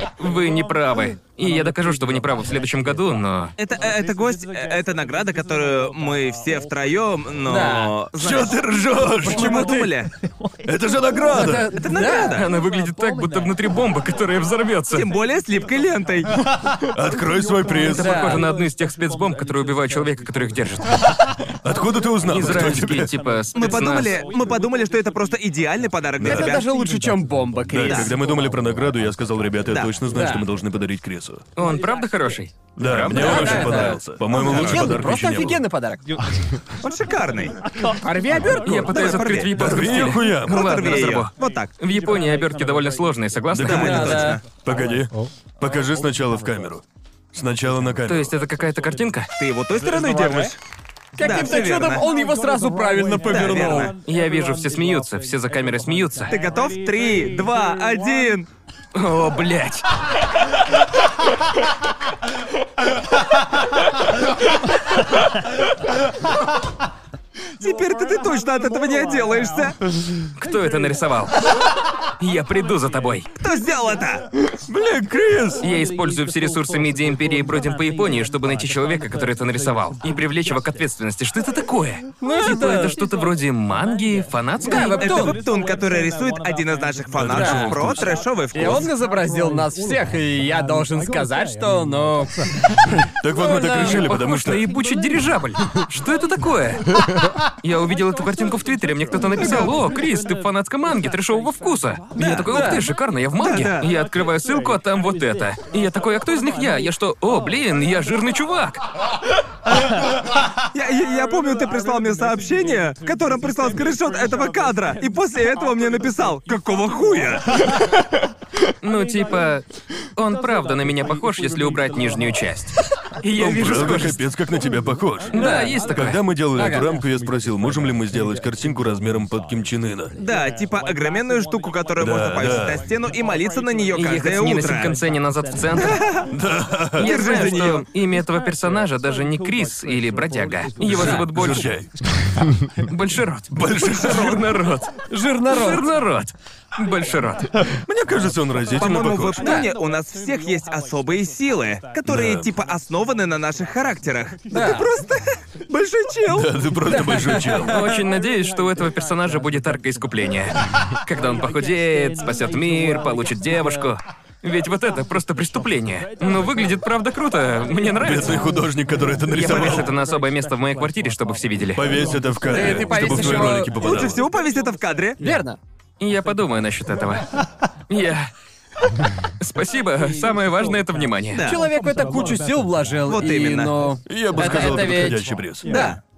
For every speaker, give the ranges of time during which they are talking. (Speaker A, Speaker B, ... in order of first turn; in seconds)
Speaker A: 0.2-3.5, 12.3-15.1, 17.9-20.9, 22.3-24.2, 31.6-33.9, 38.6-44.3, 48.1-49.3, 54.0-56.3, 58.9-59.9, 70.4-71.5, 72.2-73.3, 75.6-85.2, 93.8-96.8, 97.6-108.8, 118.8-119.6, 120.2-124.2, 125.3-126.2, 133.9-136.0, 137.0-141.7, 142.9-144.9, 145.5-147.5, 157.5-168.4, 169.3-171.9, 172.7-173.6, 176.0-177.2, 177.9-178.3, 179.4-181.5
Speaker B: 3.6-10.1, 11.7-12.5, 14.9-16.3, 23.6-26.6, 27.8-28.1, 36.8-37.5, 38.7-41.7, 43.7-44.4, 49.4-50.6, 51.2-52.0, 53.2-53.9, 56.3-58.5, 67.6-69.8, 73.4-74.2, 84.8-88.9, 102.1-102.8, 103.4-103.9, 110.7-117.6, 130.2-135.0, 135.8-136.3, 137.0-137.8, 148.8-156.6, 173.7-175.2, 181.3-181.6, 183.1-183.7, 185.7-186.0
Speaker C: 7.5-8.0, 9.2-10.0, 11.3-12.4, 18.0-18.5, 26.2-28.1, 30.1-30.4, 33.1-36.0, 38.0-38.9, 43.7-44.4, 51.2-53.9, 82.2-83.0, 84.6-85.4, 87.3-87.7, 88.5-92.4, 93.3-94.0, 99.4-99.7, 102.5-102.9, 125.4-125.8, 126.5-126.9, 140.9-141.2, 145.1-145.9, 149.4-149.7, 154.5-154.9, 156.9-157.6, 172.5-173.7, 175.2-175.6, 181.4-186.0
Speaker D: 8.2-9.8, 10.7-11.7, 16.8-18.4, 21.6-23.1, 26.2-26.6, 27.7-31.4, 32.8-35.6, 39.6-40.6, 43.5-48.3, 74.5-75.6, 87.1-88.2, 93.2-94.7, 123.4-130.1, 132.0-132.9, 136.3-137.1, 140.8-142.5, 143.5-144.4, 147.7-149.6, 152.1-152.5, 156.3-157.8, 168.0-169.9, 171.8-174.3, 184.1-185.8